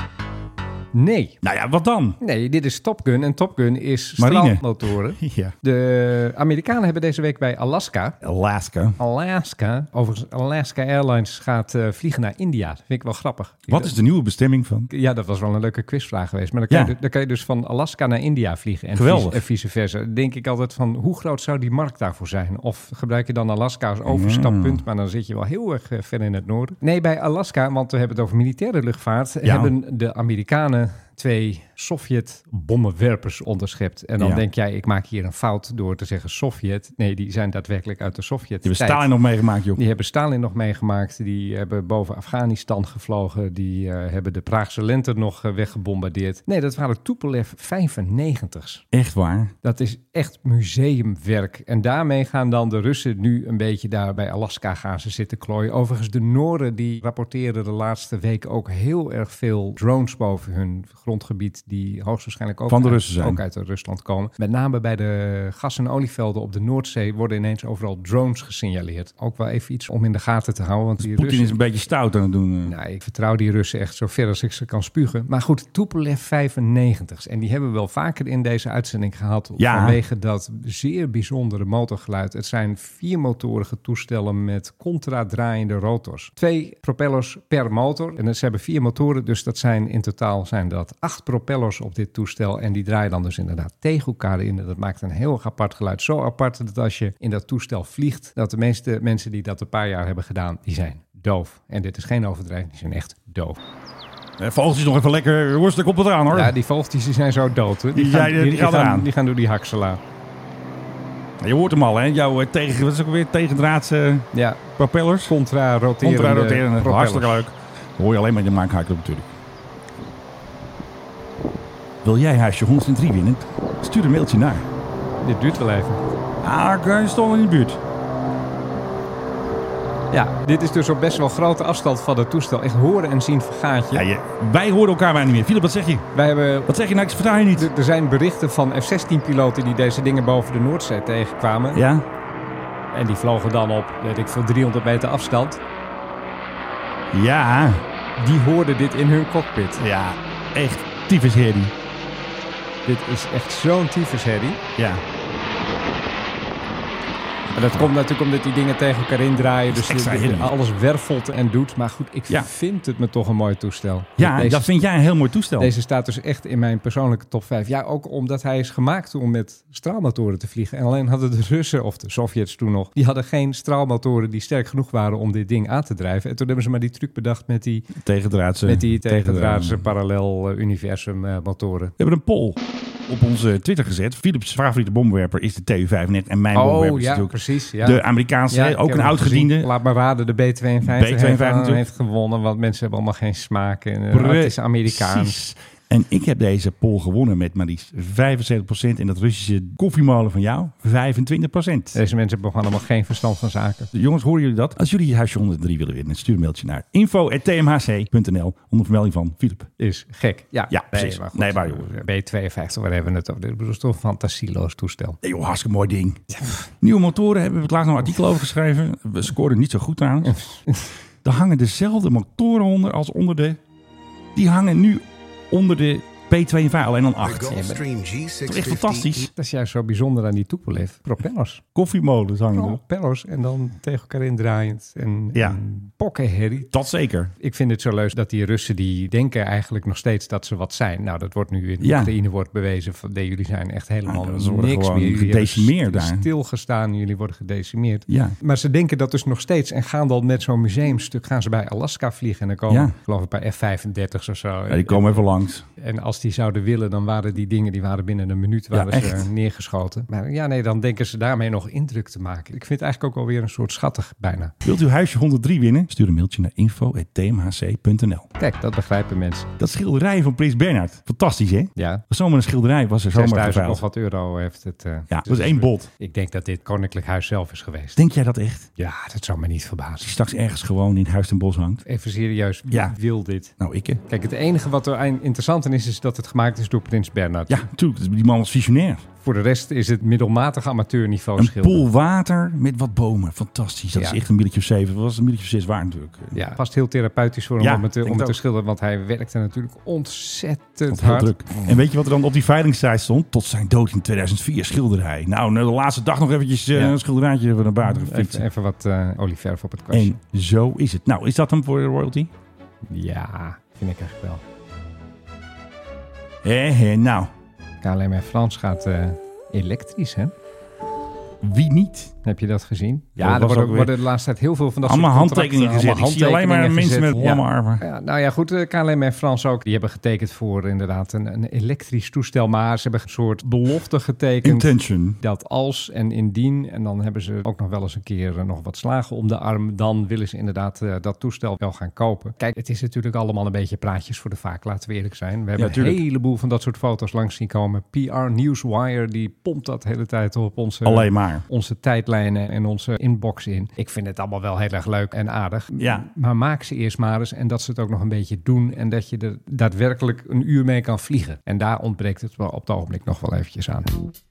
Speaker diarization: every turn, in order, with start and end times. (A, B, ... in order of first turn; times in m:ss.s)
0:00.9-0:01.4 A
0:01.4-0:02.2 B
0:02.2-0:08.2 A
0:04.2-0:05.5 B
0:08.2-0:09.0 B
0:09.0-0:13.9 A
0:13.7-0:14.9 B
0:14.9-0:39.1 A
0:18.9-0:19.4 B
0:24.0-0:24.8 B
0:29.4-0:29.7 B
0:38.6-0:39.8 B
0:39.8-0:48.8 A
0:48.9-0:49.5 B
0:49.6-1:11.6 A
1:02.7-1:03.4 B
1:11.0-1:12.7 B
1:12.6-1:43.6 A
1:19.6-1:20.0 B
1:44.4-1:46.5 B
1:46.3-1:50.0 A
1:47.9-1:49.1 B
1:51.4-1:55.3 B
1:54.3-1:54.6 A
1:55.3-1:57.4 A
1:56.0-1:59.3 B
2:02.0-2:04.6 B
2:05.2-2:06.1 A
2:06.4-2:07.8 B
2:10.1-2:14.0 A
2:13.9-2:16.1 B
2:16.1-2:16.7 A
2:16.7-2:17.7 B
2:17.5-2:21.8 A
2:21.7-2:22.0 B
2:22.9-2:25.6 A
2:27.1-2:27.8 B
2:28.2-2:29.8 A
2:29.8-2:31.7 B
2:32.8-2:34.6 A
2:34.8-2:35.0 B
2:37.5-2:44.8 A
2:39.7-2:40.5 B
2:44.2-2:45.7 B
2:45.6-2:57.9 A
2:58.0-2:59.9 B
2:58.6-3:01.9 A
3:02.0-3:09.7 B
3:06.5-3:15.4 A
3:10.8-3:11.8 B
3:14.1-3:22.0 B
3:21.9-3:23.9 A
3:23.9-3:29.7 B
3:29.8-3:35.2 A
3:30.7-3:32.0 B
3:35.2-3:36.2 B
3:36.3-3:36.6 A
3:36.8-3:40.4 B
3:40.2-3:40.9 A
3:41.2-3:43.6 B
3:44.3-3:47.8 B
3:47.5-3:47.9 A
3:48.4-3:49.3 B
3:49.3-3:51.6 A
3:51.7-3:52.8 B
3:52.5-3:56.7 A
3:56.7-3:57.3 B
3:57.4-4:15.2 A
4:01.8-4:02.1 B
4:04.0-4:06.2 B
4:08.1-4:08.4 B
4:12.7-4:12.9 B
4:14.7-4:15.6 B
4:15.8-4:24.5 A
4:18.7-4:19.3 B
4:24.6-4:28.3 B
4:28.4-4:29.5 A
4:29.6-4:33.8 B
4:31.8-4:32.0 A
4:33.1-4:38.0 A
4:35.1-4:35.9 B
4:38.0-4:38.7 B
4:38.8-4:40.1 A
4:40.0-4:41.8 B
4:41.8-4:43.5 A
4:43.6-4:44.0 B
4:44.1-4:47.6 A
4:47.5-4:49.0 B
4:49.2-4:51.8 A
4:51.4-4:56.4 B
4:53.9-4:54.2 A
4:56.3-5:01.3 A
4:57.6-4:58.4 B
5:00.9-5:08.4 B
5:07.8-5:10.2 A
5:09.9-5:12.3 B
5:12.9-5:14.4 A
5:16.4-5:17.3 B
5:17.8-5:20.3 A
5:21.4-5:22.1 B
5:22.2-6:03.9 A
5:23.2-5:23.9 B
5:24.8-5:27.8 B
5:34.4-5:35.2 B
5:45.6-5:46.0 B
5:50.8-5:51.4 B
5:55.8-5:56.0 B